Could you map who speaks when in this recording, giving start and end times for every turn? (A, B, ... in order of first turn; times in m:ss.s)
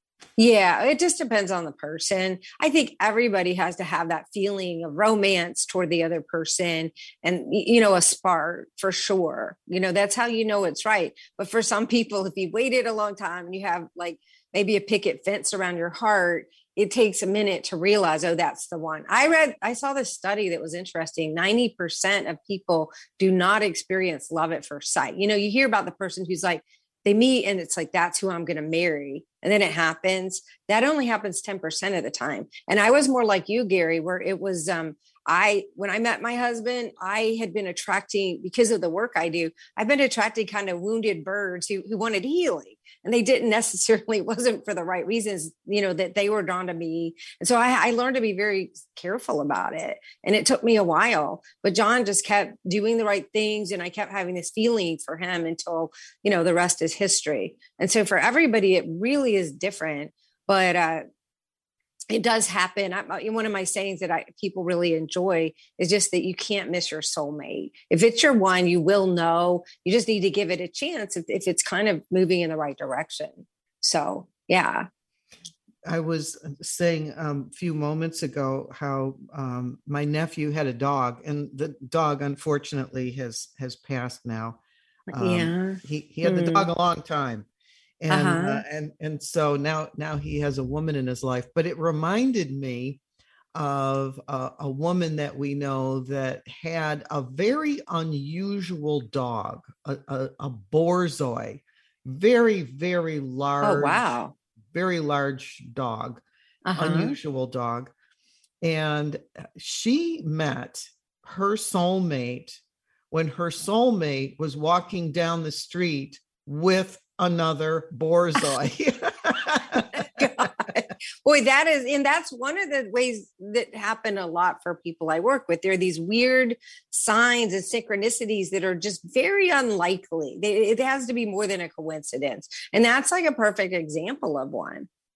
0:00.4-1:01.0 A
1:02.1-1:14.9 A
1:15.8-1:24.6 B
1:25.1-1:27.5 B
1:25.1-1:26.7 A
1:28.0-1:33.0 B
1:28.1-1:28.6 A
1:33.5-1:44.0 B
1:43.6-1:44.4 A
1:44.7-1:46.2 B
1:46.7-1:47.2 A
1:46.8-1:47.9 B
1:48.6-1:52.6 B
1:53.1-2:00.2 B
1:59.9-2:14.9 A